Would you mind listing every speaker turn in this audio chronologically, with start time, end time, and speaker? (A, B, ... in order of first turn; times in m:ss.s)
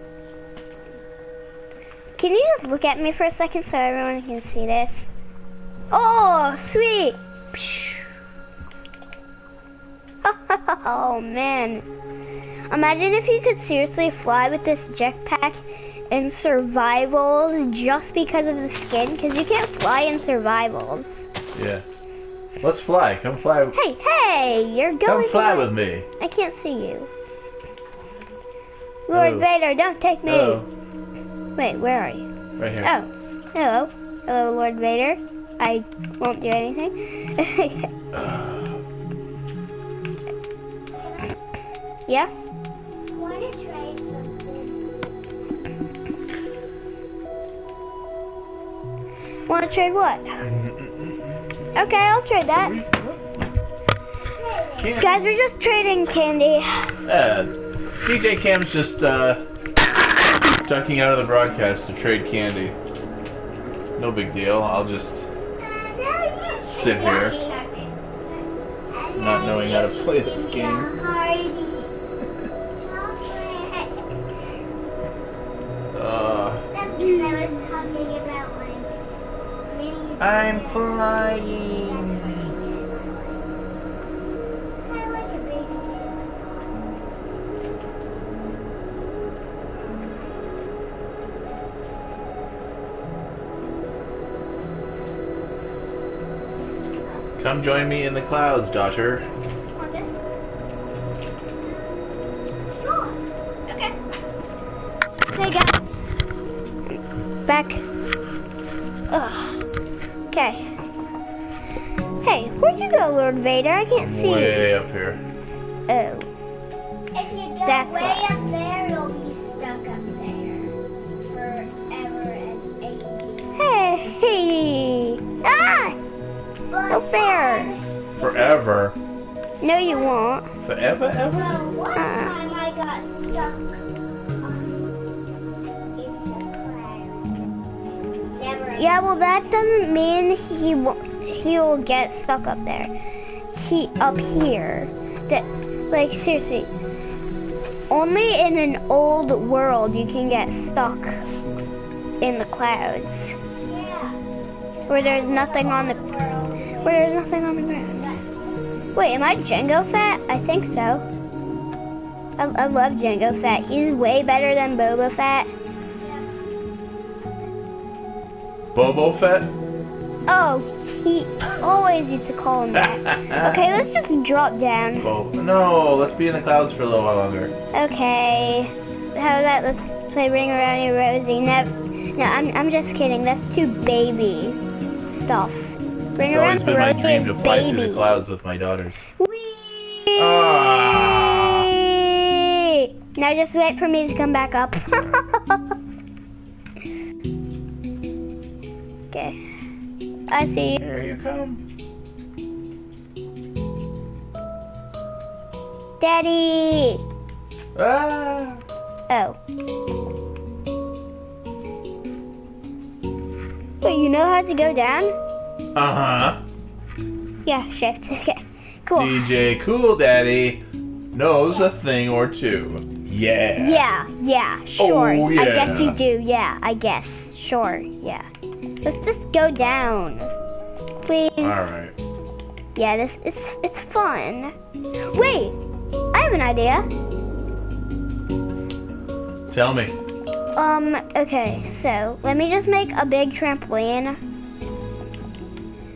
0:02.2-0:05.1 A
0:05.9-0:08.1 A
0:10.2-0:11.8 A
0:12.7-0:21.3 A
0:21.5-0:21.8 B
0:22.6-0:23.8 B
0:23.7-0:27.1 A
0:25.0-0:26.1 B
0:29.1-0:30.7 A
0:29.1-0:29.4 B
0:30.2-0:30.7 B
0:31.6-0:32.3 A
0:32.6-0:32.9 B
0:32.8-0:37.9 A
0:38.1-0:38.8 B
0:41.0-0:41.3 C
0:43.1-0:45.1 C
0:49.5-0:50.4 A
0:50.4-0:51.6 B
0:51.7-0:52.8 A
0:52.6-0:53.3 B
0:54.3-0:55.0 C
0:54.8-0:55.2 B
0:55.0-0:56.9 A
0:57.0-0:59.4 B
1:00.6-1:02.8 B
1:04.0-1:05.3 B
1:05.6-1:11.9 C
1:06.7-1:07.4 B
1:09.2-1:10.9 B
1:12.7-1:14.4 C
1:15.9-1:16.6 B
1:16.7-1:19.0 C
1:19.7-1:23.5 C
1:20.2-1:22.5 B
1:24.8-1:26.9 C
1:29.9-1:30.2 C
1:37.4-1:39.2 B
1:39.8-1:40.1 A
1:42.8-1:43.2 C
1:45.4-1:45.7 C
1:46.9-1:47.8 A
1:49.1-1:49.6 A
1:50.3-1:50.7 A
1:52.2-1:54.7 A
1:54.0-1:55.2 B
1:55.9-1:56.3 A
1:57.1-2:03.6 C
1:57.6-1:58.3 A
2:03.5-2:06.0 A
2:06.7-2:08.4 C
2:06.9-2:07.7 A
2:08.2-2:09.0 B
2:09.6-2:10.5 A
2:09.7-2:10.1 C
2:10.6-2:11.6 B
2:11.2-2:15.0 C
2:11.9-2:12.3 A
2:16.0-2:17.4 C
2:18.1-2:19.0 C
2:18.8-2:22.9 A
2:23.5-2:26.7 A
2:27.9-2:31.2 A
2:32.2-2:33.3 A
2:33.6-2:34.2 C
2:34.7-2:37.2 C
2:34.9-2:36.1 A
2:36.8-2:38.1 A
2:37.9-2:38.6 C
2:38.9-2:41.0 A
2:42.4-2:45.5 A
2:45.8-2:46.2 C
2:48.7-2:49.5 B
2:50.3-2:55.1 A
2:52.7-2:53.7 B
2:55.0-2:57.5 B
2:57.7-3:04.6 A
3:05.1-3:08.2 A
3:06.3-3:09.0 B
3:09.2-3:10.5 A
3:10.2-3:11.8 B
3:11.4-3:15.6 A
3:19.1-3:19.4 A
3:20.3-3:20.8 A
3:20.8-3:21.6 B
3:26.0-3:27.0 A
3:27.7-3:28.6 B
3:29.1-3:29.4 A
3:33.8-3:35.2 A
3:35.7-3:36.4 B
3:37.4-3:39.2 A
3:39.0-3:40.6 B
3:41.1-3:43.8 B
3:43.6-3:48.3 A
3:44.8-3:46.0 B
3:48.8-3:50.3 A
3:51.0-3:51.6 A
3:51.4-3:51.9 B
3:52.7-3:54.5 A
3:55.0-3:55.6 A
3:56.1-3:56.9 A
3:59.5-4:00.0 B
4:00.5-4:04.2 A